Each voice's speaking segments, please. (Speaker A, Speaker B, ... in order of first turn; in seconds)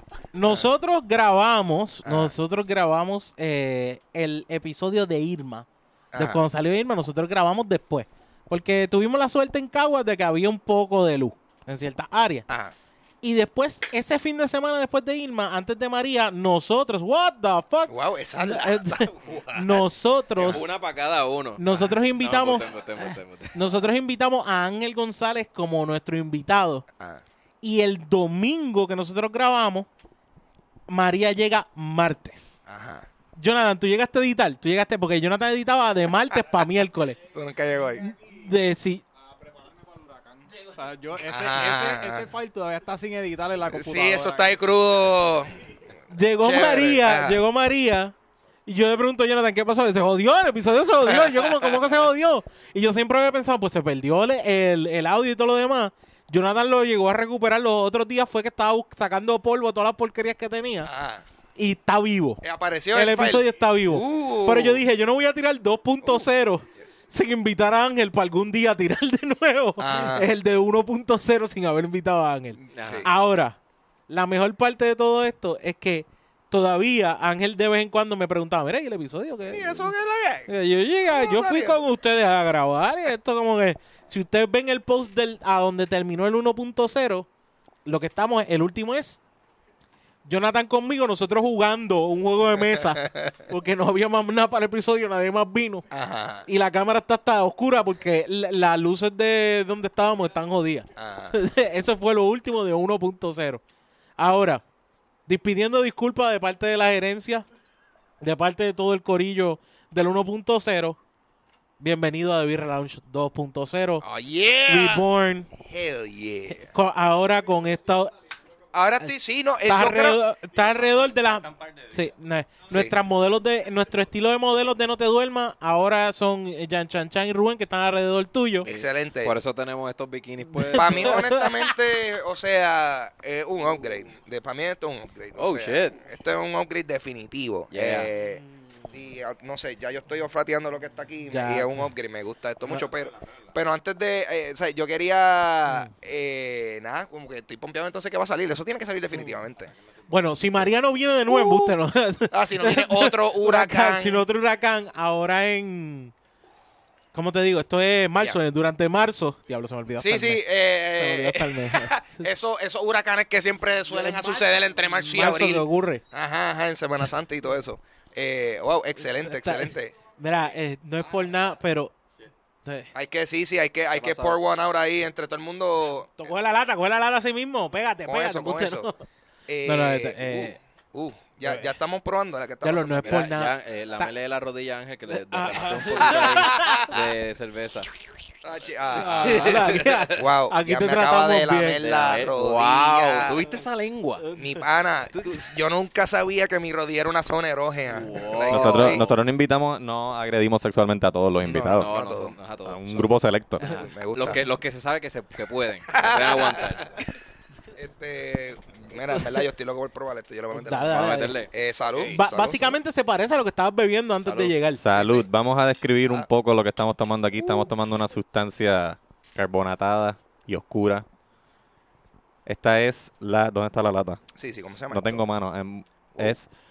Speaker A: 0.3-12.4, 13.2-20.7, 21.6-26.9, 27.6-29.9, 30.9-32.6, 33.4-37.2, 38.0-39.0, 46.1-48.1, 48.7-60.9, 61.6-73.6, 74.1-79.9, 80.5-87.3, 87.9-89.2, 90.3-95.9, 96.5-103.6, 104.2-104.6, 105.3-107.5, 108.2-111.0, 111.8-114.0, 114.7-115.5, 116.6-118.1, 119.7-128.7, 130.7-131.5, 141.3-141.9, 150.1-156.1, 157.1-160.4, 161.0-162.2, 163.9-166.0, 169.0-171.9, 172.7-172.9, 176.2-178.9, 179.7-180.6, 181.4-181.7, 182.6-184.1, 185.1-186.9, 189.0-191.8, 210.5-211.4, 212.1-214.8
Speaker B: 2.0-2.3, 6.1-6.4, 12.5-12.7, 17.9-19.8, 20.4-20.7, 32.7-33.1, 37.3-38.0, 41.2-42.3, 43.7-45.6, 46.4-47.4, 60.8-61.2, 62.4-64.8, 69.8-70.3, 72.6-73.1, 79.5-80.5, 81.1-81.8, 95.9-96.5, 101.0-101.3, 114.0-115.1, 115.6-116.7, 118.7-120.2, 122.7-123.0, 128.6-129.3, 130.8-149.7, 151.3-151.7, 152.3-154.2, 160.0-170.0, 172.9-176.2, 178.1-178.9, 179.5-183.3, 186.1-187.0, 188.4-193.4, 194.4-199.1, 201.4-202.4, 203.6-204.4, 205.9-207.0, 207.8-212.8, 214.4-215.3, 224.4-225.2
Speaker C: 20.4-23.6, 72.7-73.1, 128.7-131.3, 135.4-136.0, 137.7-138.1, 173.9-174.4, 183.0-187.9, 189.0-190.1, 191.8-194.2, 195.1-195.4, 197.9-199.1, 201.7-206.9, 210.9-211.5
Speaker D: 39.6-44.6
Speaker E: 121.5-121.8, 198.5-201.9, 202.6-203.6, 214.7-221.1, 222.5-224.2, 224.9-226.5